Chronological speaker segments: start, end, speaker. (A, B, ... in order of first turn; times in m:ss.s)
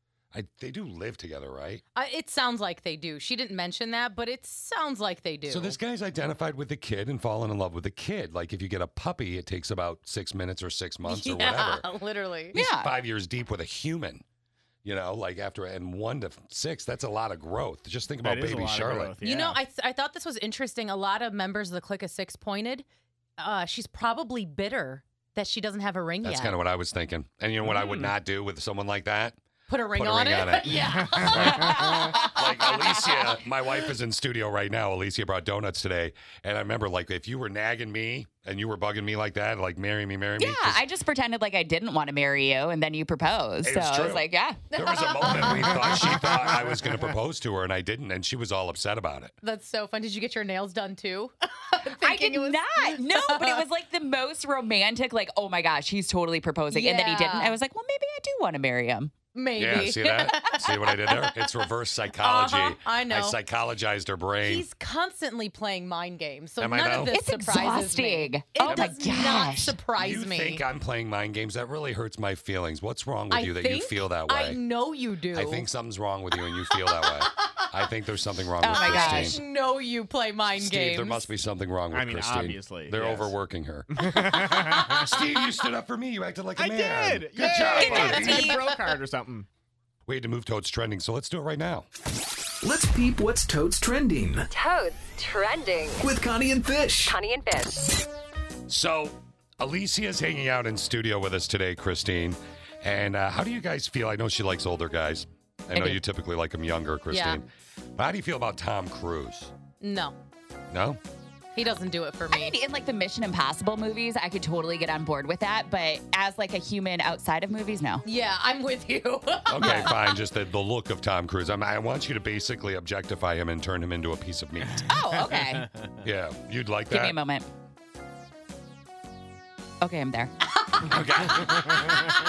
0:00.3-0:01.8 A
0:02.0-0:05.8 B
0:05.5-0:11.9 A
0:11.0-0:12.6 B
0:12.5-0:12.9 C
0:12.5-0:14.2 A
0:14.8-0:19.1 A
0:18.2-0:19.6 D
0:19.2-0:22.8 B
0:23.4-0:26.6 B
0:26.2-0:29.4 A
0:27.6-0:28.1 D
0:29.7-0:31.9 B
0:30.0-0:31.8 A
0:30.7-0:32.1 D
0:31.4-0:33.2 C
0:32.3-0:40.8 A
0:40.4-0:44.7 C
0:43.6-0:49.3 A
0:44.8-0:45.9 B
0:45.4-0:46.9 D
0:49.4-0:53.6 B
0:52.0-0:59.1 C
0:56.7-0:57.6 B
0:59.3-1:01.5 B
0:59.6-1:04.7 A
1:02.2-1:03.4 B
1:04.4-1:10.6 B
1:06.6-1:07.1 A
1:07.1-1:09.8 C
1:08.6-1:09.0 A
1:10.0-1:14.6 A
1:13.3-1:15.7 B
1:15.3-1:19.4 A
1:16.9-1:17.1 B
1:18.6-1:19.4 C
1:18.7-1:21.3 B
1:20.5-1:24.0 A
1:21.9-1:23.3 D
1:23.9-1:25.1 D
1:24.8-1:28.6 A
1:26.6-1:29.5 D
1:27.6-1:28.8 B
1:28.0-1:28.5 C
1:30.1-1:31.9 A
1:32.6-1:34.5 E
1:34.5-1:36.1 F
1:36.0-1:37.2 E
1:37.0-1:37.9 F
1:38.7-1:47.5 A
1:47.1-1:47.4 B
1:48.0-1:49.5 A
1:49.8-1:50.2 B
1:50.7-1:51.0 A
1:51.6-1:52.6 B
1:52.3-1:58.0 C
1:58.0-2:00.0 B
1:59.5-2:04.9 A
2:04.9-2:05.7 C
2:05.2-2:06.0 D
2:06.0-2:07.2 A
2:06.9-2:07.5 C
2:09.8-2:10.3 C
2:10.9-2:11.9 A